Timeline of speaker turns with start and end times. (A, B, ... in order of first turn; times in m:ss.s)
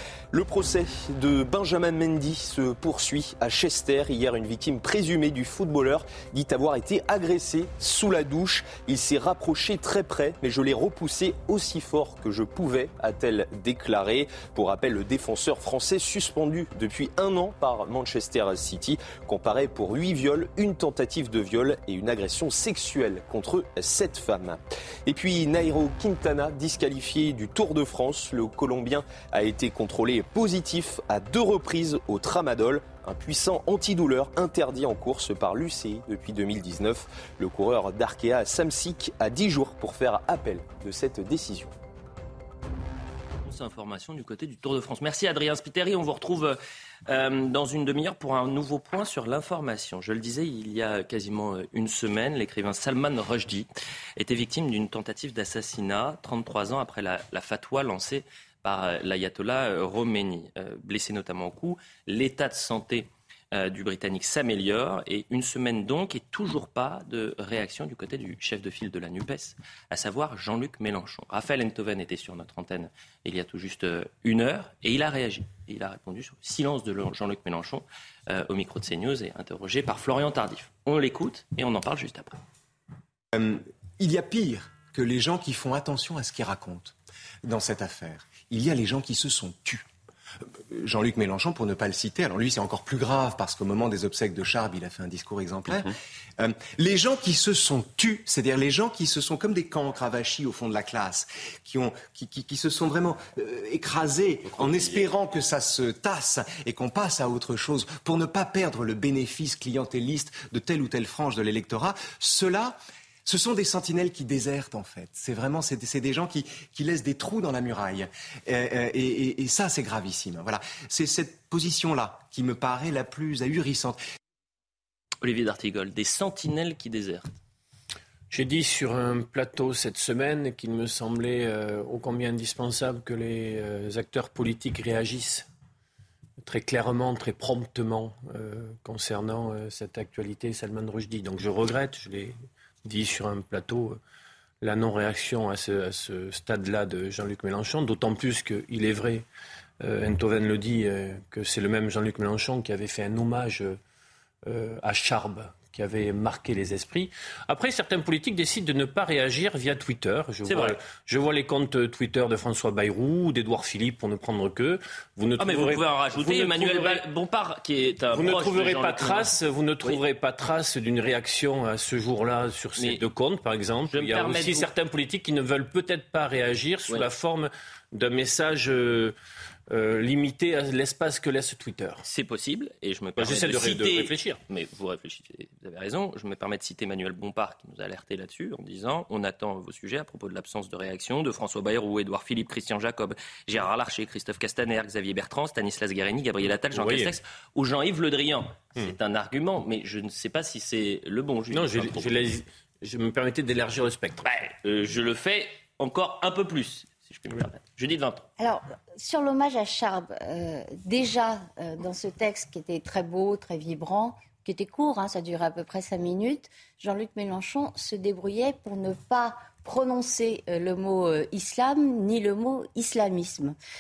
0:00.3-0:41.7 A
0:43.4-1:22.4 B
1:23.3-1:29.8 C
1:30.7-2:04.0 C
2:05.2-2:07.3 B
2:08.3-2:15.5 D
2:16.4-2:24.0 D
2:24.6-2:29.2 D
2:29.8-2:33.8 D
2:34.4-2:47.0 D
2:40.4-2:40.8 B
2:45.4-2:50.0 B
2:48.1-2:59.1 D
2:53.9-2:54.7 B
2:59.7-3:02.0 D
3:02.0-3:22.3 B
3:03.2-3:04.4 D
3:16.7-3:17.1 D
3:21.5-3:24.3 D
3:24.2-3:28.3 B
3:28.4-3:43.5 E